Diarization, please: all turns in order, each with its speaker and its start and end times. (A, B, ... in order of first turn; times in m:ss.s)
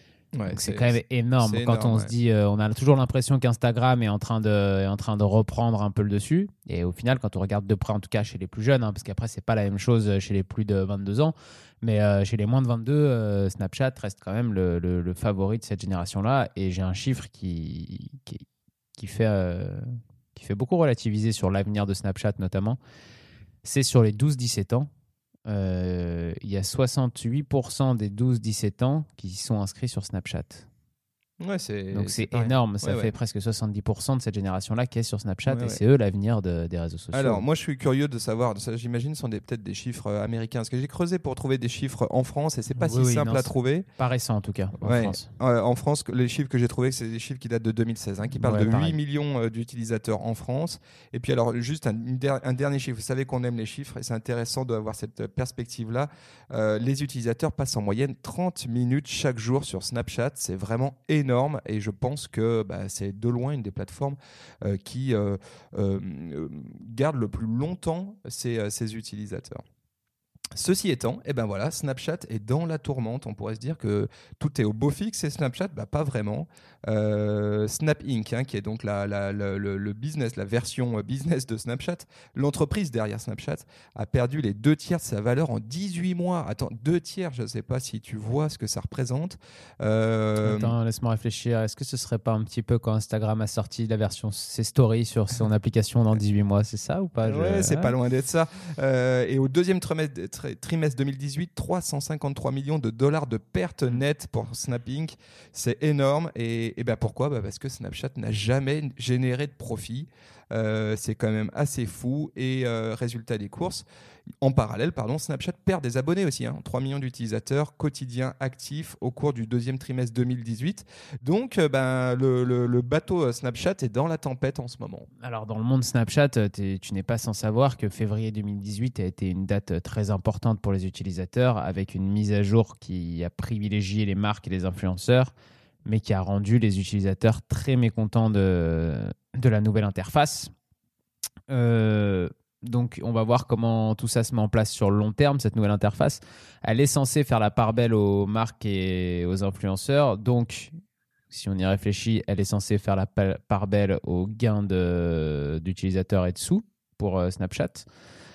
0:00.3-0:02.1 A
0:00.5-0:18.4 B
0:19.0-0:22.8 B
0:23.6-0:24.9 B
0:25.5-0:30.7 B
0:31.4-0:33.1 A
0:31.9-0:37.4 B
0:35.5-0:35.8 A
0:37.1-0:43.9 A
0:42.8-0:45.3 B
0:44.8-1:09.6 A
0:48.3-0:49.0 B
1:10.6-1:30.7 A
1:30.4-1:37.9 B
1:37.2-1:53.8 A
1:54.4-2:05.1 A
2:05.2-2:15.3 B
2:15.8-2:20.5 B
2:21.5-2:30.7 B
2:31.3-2:37.9 B